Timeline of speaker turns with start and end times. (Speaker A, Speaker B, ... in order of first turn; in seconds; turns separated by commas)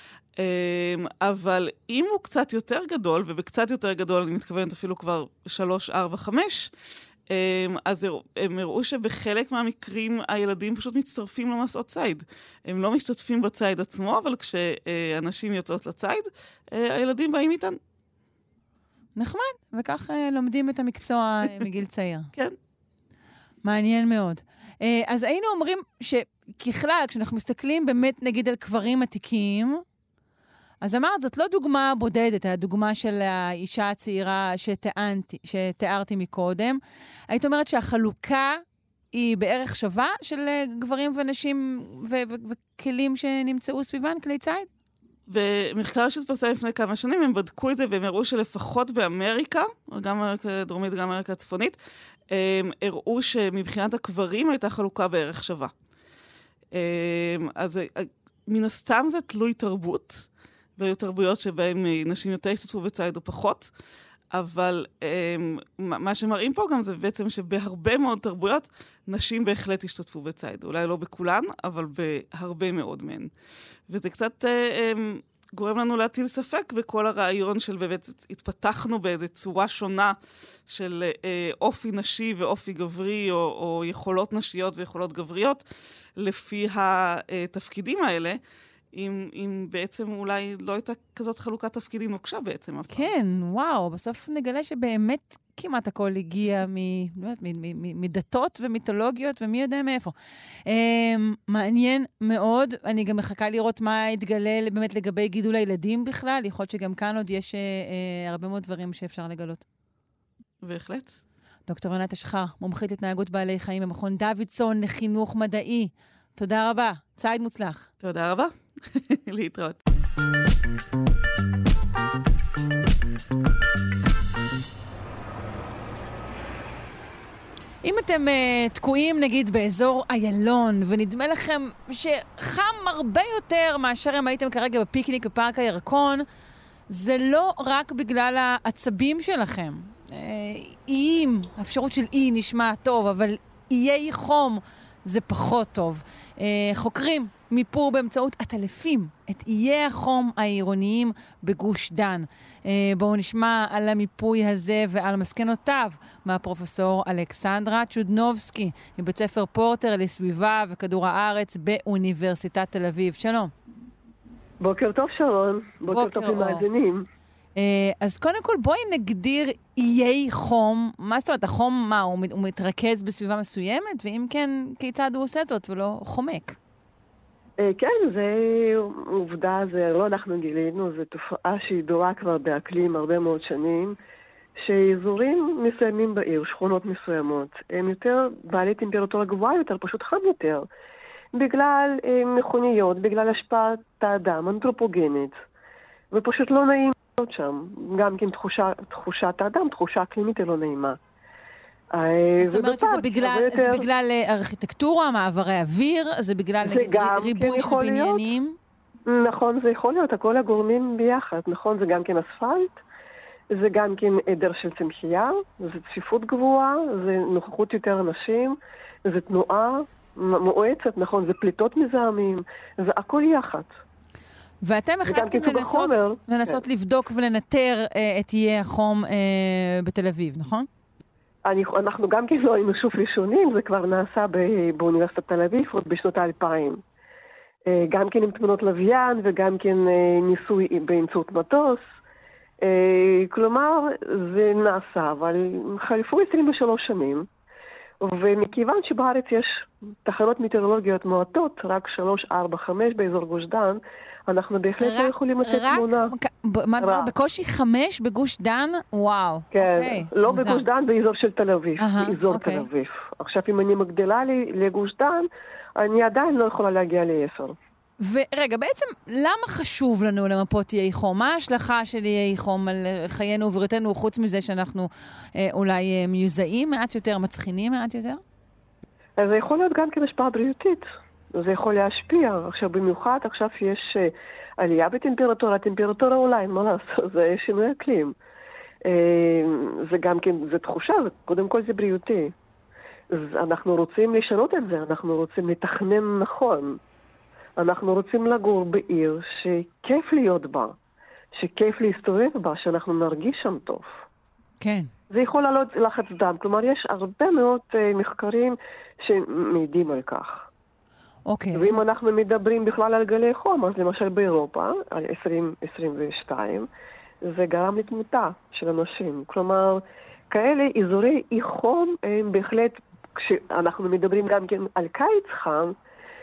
Speaker A: 0.4-6.7, Speaker A: 7.3-17.8, Speaker B: 19.2-22.3, Speaker B: 23.6-29.8, Speaker B: 30.8-38.6, Speaker B: 39.1-44.7, Speaker A: 45.3-51.8, Speaker A: 52.3-55.7, Speaker A: 56.7-63.7, Speaker A: 64.3-73.3, Speaker A: 73.9-80.2, Speaker A: 80.7-85.7, Speaker A: 86.2-88.4, Speaker A: 88.9-93.1, Speaker B: 92.9-109.6, Speaker A: 110.6-111.2, Speaker B: 111.7-117.9, Speaker A: 118.0-119.8, Speaker B: 127.8-136.2, Speaker B: 136.9-163.5, Speaker C: 164.6-167.1, Speaker B: 165.9-166.6, Speaker B: 167.6-176.6, Speaker C: 177.6-184.0, Speaker C: 184.6-190.7, Speaker C: 191.3-195.4, Speaker C: 196.1-201.0, Speaker C: 201.9-203.8, Speaker B: 202.4-208.6, Speaker C: 206.6-208.2, Speaker C: 209.1-212.8, Speaker C: 213.5-223.7, Speaker B: 224.6-230.7, Speaker C: 225.1-226.6, Speaker C: 231.5-236.8, Speaker C: 237.7-241.8, Speaker C: 242.6-247.3, Speaker C: 248.0-256.1, Speaker B: 254.8-260.6, Speaker C: 256.8-257.1, Speaker C: 259.5-267.6, Speaker B: 261.8-262.7, Speaker B: 268.0-278.2, Speaker C: 279.2-288.1, Speaker C: 288.9-292.3, Speaker C: 293.1-296.8, Speaker C: 297.6-300.8, Speaker C: 301.4-303.9, Speaker B: 304.6-304.9, Speaker C: 305.1-310.5, Speaker B: 311.3-311.8, Speaker C: 311.5-316.7, Speaker C: 317.2-325.8